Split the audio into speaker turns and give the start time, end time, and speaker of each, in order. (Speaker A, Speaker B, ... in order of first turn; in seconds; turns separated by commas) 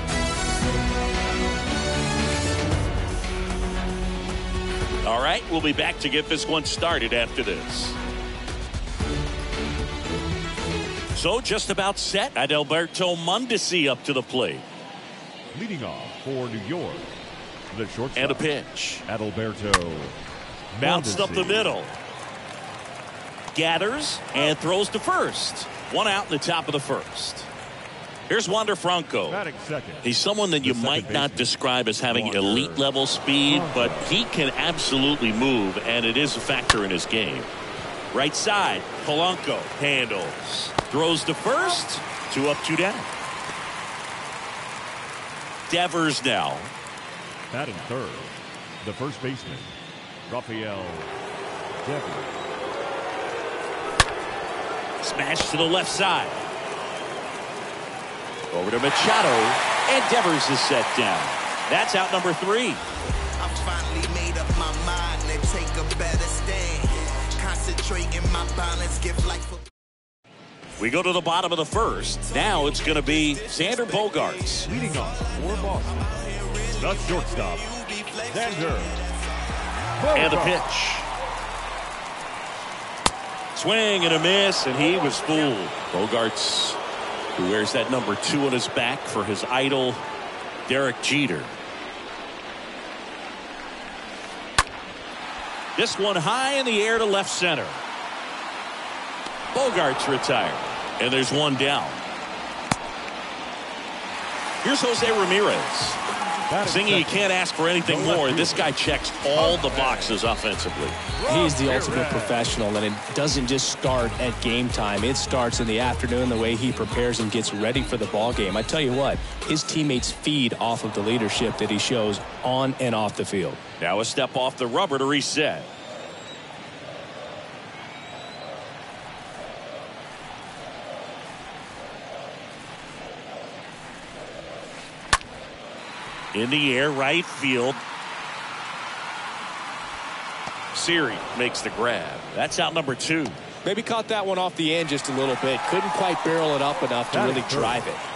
Speaker A: 5.0-8.0, Speaker A: 11.1-14.6, Speaker B: 15.5-17.1, Speaker B: 17.7-18.4, Speaker A: 18.1-19.0, Speaker B: 19.1-20.2, Speaker B: 20.7-21.8, Speaker A: 20.8-21.9, Speaker A: 23.5-27.5, Speaker A: 28.3-29.4, Speaker B: 29.2-31.5, Speaker A: 30.0-37.5, Speaker B: 32.1-32.8, Speaker B: 33.5-34.2, Speaker A: 38.1-43.1, Speaker A: 45.7-46.7, Speaker B: 47.5-49.8, Speaker B: 50.3-51.1, Speaker B: 51.8-52.3, Speaker A: 55.0-56.4, Speaker A: 58.5-62.8, Speaker C: 63.4-69.6, Speaker A: 70.8-74.7, Speaker C: 72.3-79.1, Speaker B: 74.6-76.1, Speaker B: 76.8-77.8, Speaker B: 78.3-79.0, Speaker B: 80.0-80.6, Speaker A: 80.1-81.1, Speaker A: 83.5-86.8, Speaker A: 87.3-90.0, Speaker A: 90.7-91.5, Speaker A: 95.8-97.8, Speaker A: 99.5-102.0, Speaker A: 104.6-106.0, Speaker B: 106.5-108.8, Speaker A: 106.6-111.0, Speaker B: 109.3-110.2, Speaker B: 111.1-112.6, Speaker D: 111.2-123.6, Speaker A: 123.8-125.7, Speaker A: 136.3-137.8, Speaker A: 140.7-143.4, Speaker D: 143.6-148.0, Speaker B: 147.1-147.8